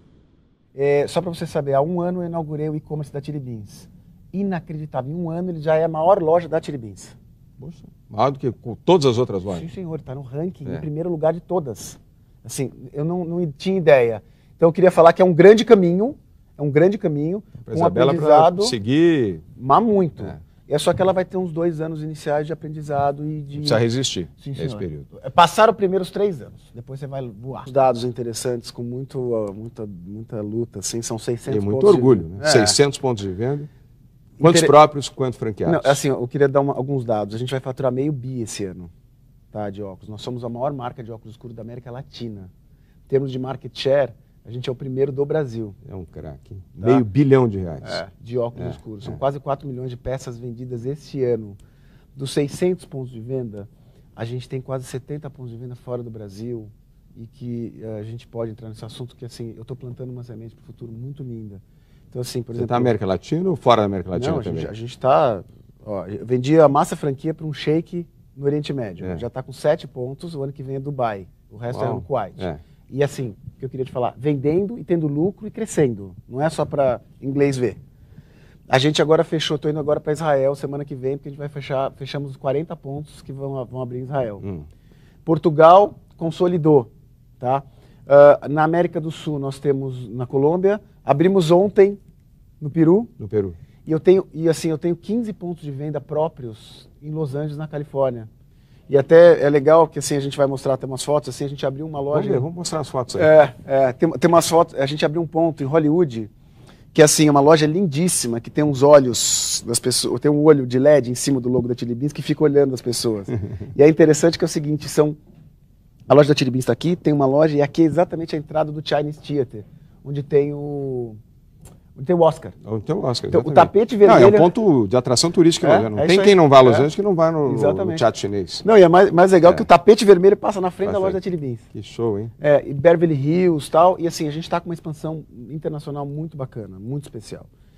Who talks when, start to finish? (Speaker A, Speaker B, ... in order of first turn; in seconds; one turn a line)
Speaker A: 0.8-7.2
Speaker B: 7.6-9.7
Speaker A: 9.5-18.8
Speaker B: 17.6-19.4
Speaker A: 19.6-23.8
Speaker B: 23.6-25.1
Speaker A: 24.4-32.8
Speaker B: 31.5-33.7
Speaker A: 34.4-34.7
Speaker B: 34.4-36.0
Speaker A: 35.6-38.9
Speaker A: 39.5-42.5
Speaker A: 43.1-45.8
Speaker B: 45.9-48.0
Speaker A: 47.8-51.6
Speaker B: 48.6-49.2
Speaker A: 52.2-63.0
Speaker B: 62.6-64.7
Speaker A: 64.1-77.8
Speaker B: 71.7-72.6
Speaker A: 78.7-84.4
Speaker B: 84.4-84.7
Speaker A: 85.2-92.0
Speaker A: 92.6-93.1
Speaker B: 93.2-93.6
Speaker A: 93.9-98.3
Speaker A: 98.9-102.5
Speaker B: 102.1-103.3
Speaker A: 103.2-106.3
Speaker A: 106.9-115.2
Speaker A: 116.1-121.2
Speaker A: 122.0-122.6
Speaker B: 122.6-128.7
Speaker A: 123.3-124.5
Speaker A: 125.6-126.9
Speaker A: 127.4-128.1
Speaker A: 128.6-131.7
Speaker B: 130.8-131.2
Speaker B: 131.7-132.3
Speaker A: 132.4-137.5